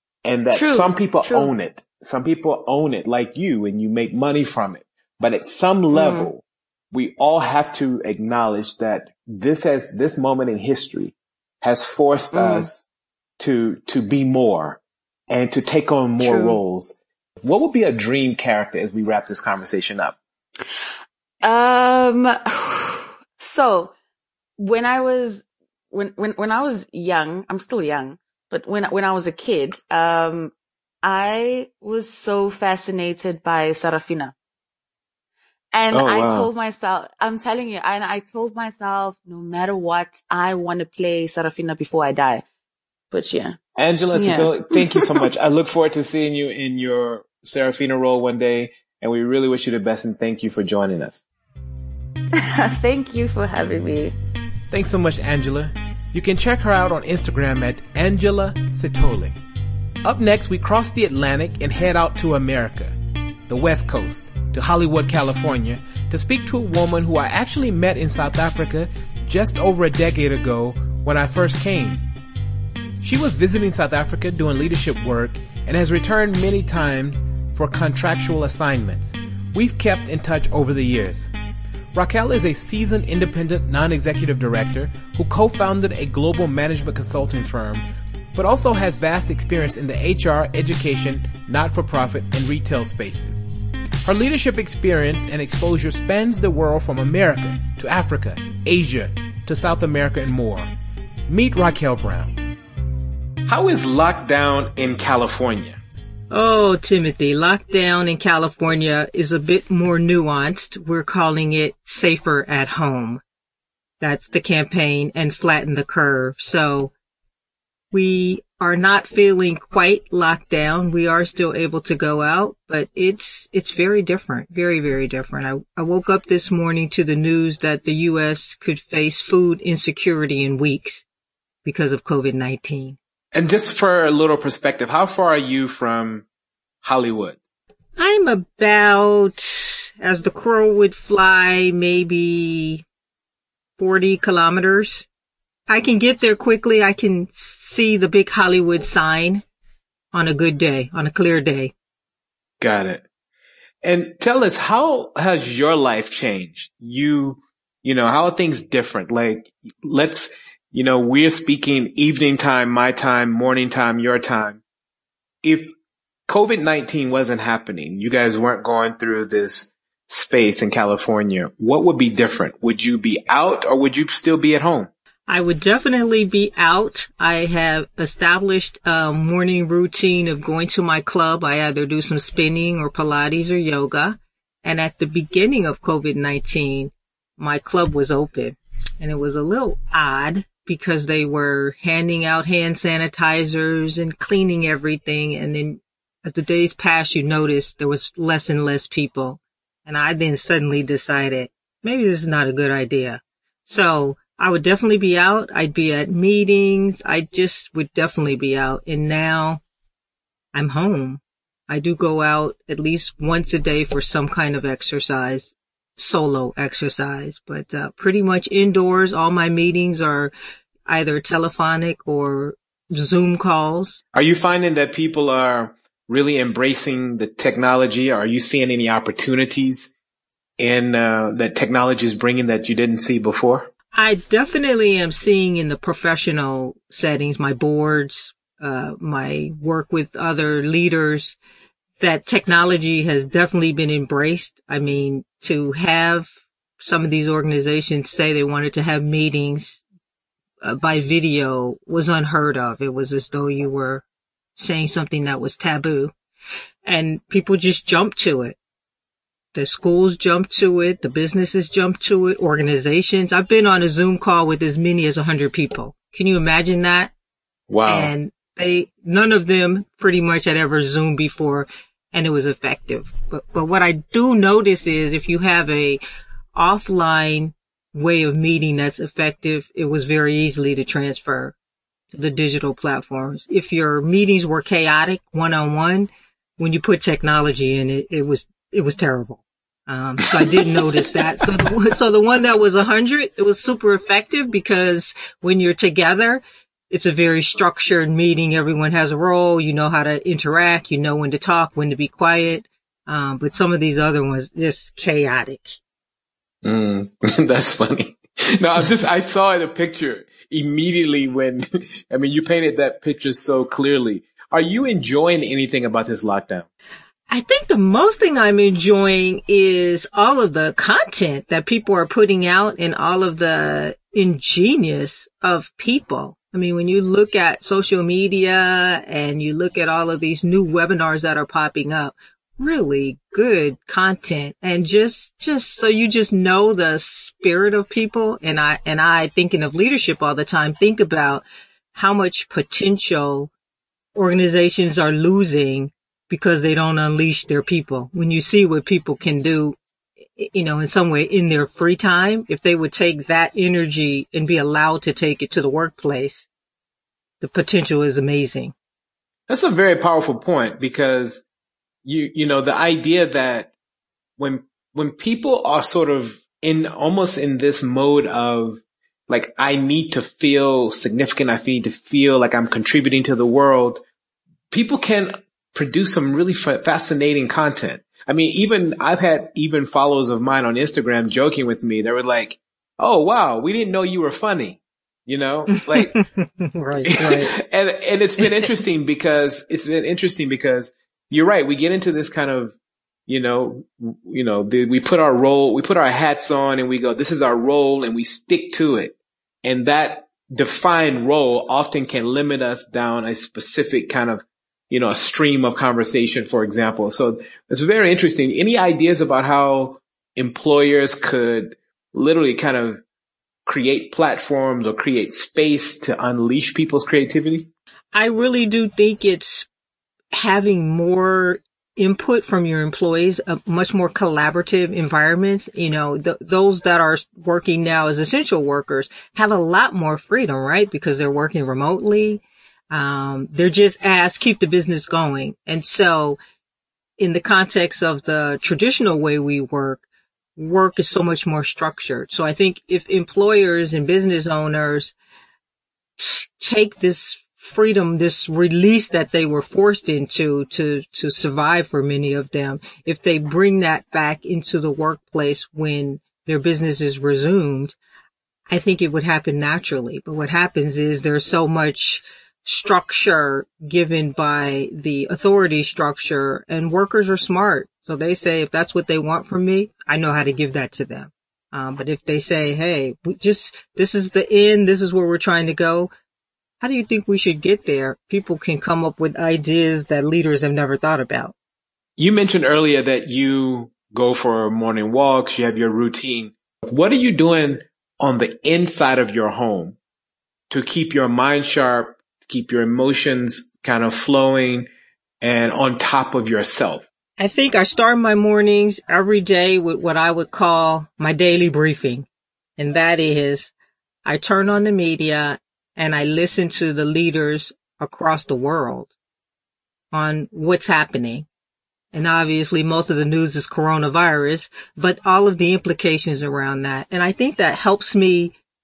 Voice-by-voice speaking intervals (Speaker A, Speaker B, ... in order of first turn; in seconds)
Speaker A: 0.2-12.8, 13.4-20.2, 35.9-36.5, 43.8-51.2, 54.7-59.4, 60.0-63.0, 63.5-72.0, 73.0-81.3, 81.9-93.5, 94.0-100.7, 101.3-102.4, 103.5-105.8, 133.3-136.3, 136.8-137.4, 152.6-153.0, 153.8-164.6, 165.4-165.7, 166.3-174.9, 224.1-229.9, 230.6-233.7, 267.7-268.1, 290.5-290.8, 306.6-316.7, 359.5-361.4, 362.1-363.7, 364.4-374.0, 374.7-386.1, 387.1-392.8, 393.3-413.0, 413.7-417.7, 482.2-490.0, 490.7-494.9, 495.4-497.1
Speaker B: 0.5-1.5, 5.9-6.3, 12.3-12.7, 16.2-16.6, 21.4-23.9, 24.6-34.3, 35.7-42.4, 43.1-43.6, 44.1-45.2, 52.3-54.1
Speaker C: 106.3-113.2, 114.0-116.9, 117.9-131.1, 131.6-133.0, 138.0-142.8, 143.8-145.1, 145.7-149.4, 150.1-151.7, 175.3-209.6, 210.5-220.3, 220.9-224.0, 233.9-241.4, 242.0-249.8, 250.6-254.0, 254.6-256.1, 256.9-258.6, 259.5-267.1, 267.9-276.0, 276.6-281.6, 282.1-305.8, 317.3-343.5, 344.1-349.8, 350.4-356.5, 357.4-358.7, 385.7-387.5, 418.1-419.7, 420.3-436.4, 437.2-440.0, 440.6-445.2, 446.2-458.0, 458.7-476.1, 476.8-481.5, 497.4-502.3, 502.8-503.7, 504.2-509.1, 510.1-511.5, 512.1-518.5